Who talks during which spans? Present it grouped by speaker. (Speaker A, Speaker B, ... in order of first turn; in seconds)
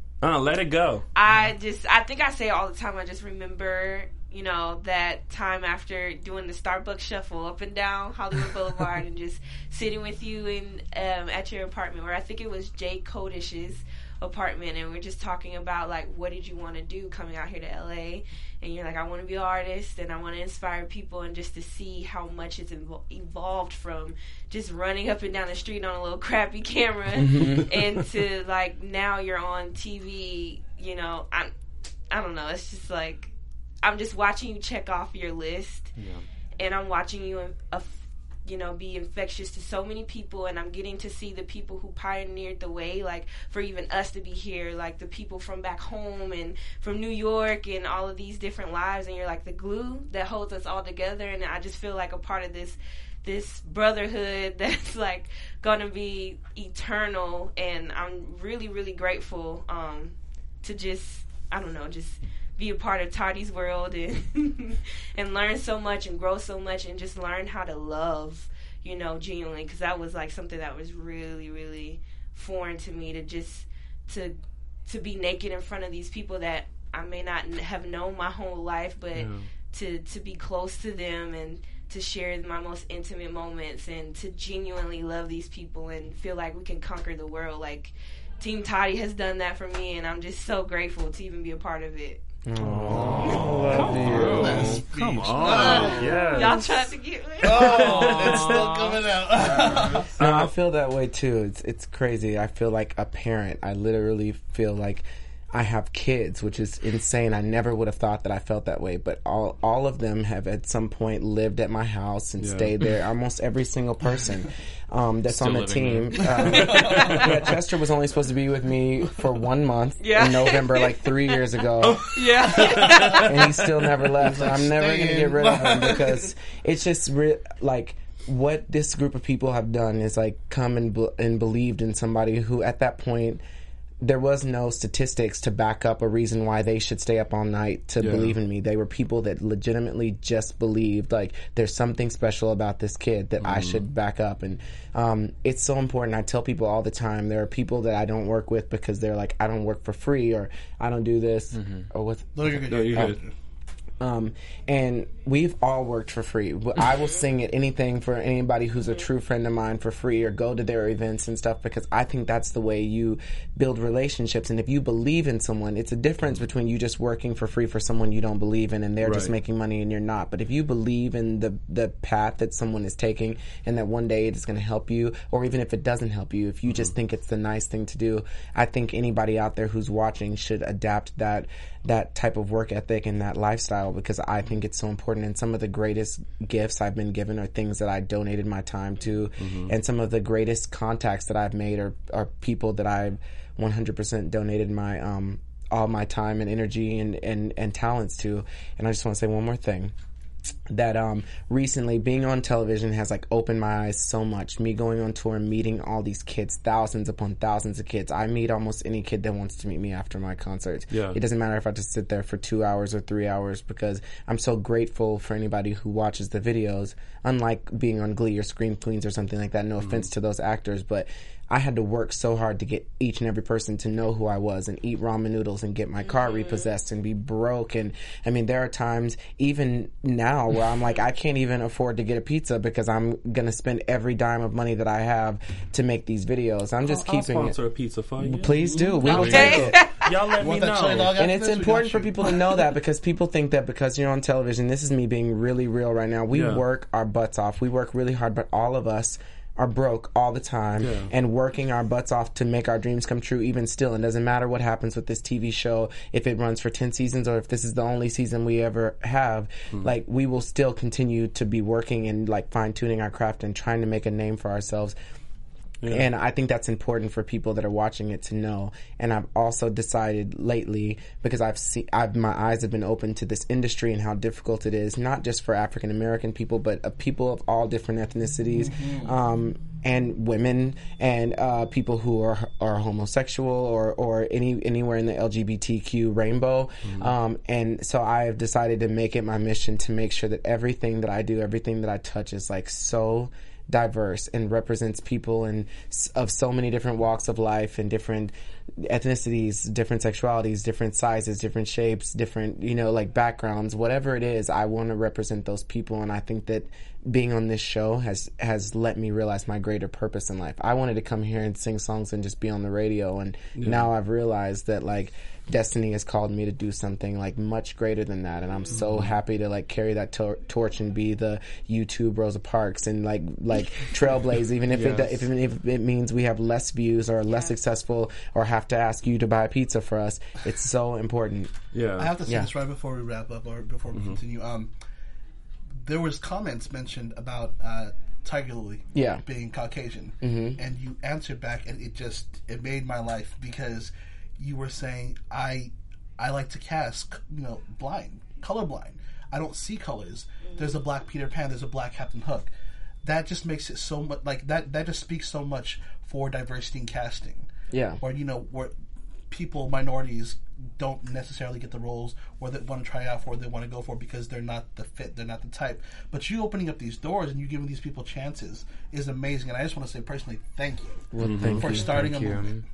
Speaker A: 0.2-1.1, 79.1-79.5, 93.0-98.7, 99.5-100.5, 112.4-112.7, 116.8-117.3, 121.8-123.8, 138.0-138.3, 143.4-143.8, 152.7-153.2, 169.0-169.3, 176.7-176.9, 189.4-189.7, 210.9-211.2, 236.9-241.2, 246.3-246.6, 250.8-251.1, 265.8-266.1, 286.8-287.1, 313.6-313.9, 331.7-332.1, 333.9-334.2, 371.2-371.8
Speaker B: 1.1-31.5, 32.1-35.9, 36.6-92.2, 95.4-98.1, 116.7-117.3, 120.0-121.4, 122.1-123.4, 226.0-226.7, 239.0-240.3, 318.5-318.8, 350.5-350.8
Speaker C: 1.2-1.5, 93.8-96.3, 97.4-100.1, 116.2-117.1, 124.1-126.3, 152.3-153.3, 238.6-239.0, 240.4-242.3, 278.5-279.1, 332.0-334.7, 335.8-352.5, 353.0-357.5, 358.0-358.7, 359.3-372.5
Speaker D: 27.1-27.8, 92.5-94.8, 100.2-122.0, 123.2-133.4, 134.0-153.2, 154.0-199.9, 200.7-237.6, 238.2-239.8, 241.2-264.9, 265.9-331.5, 338.9-339.2, 340.2-340.6, 357.7-358.0, 371.1-372.5
Speaker E: 36.0-36.2, 93.8-96.1, 97.9-99.7, 115.3-116.4, 151.5-151.9, 324.7-325.2, 371.8-372.6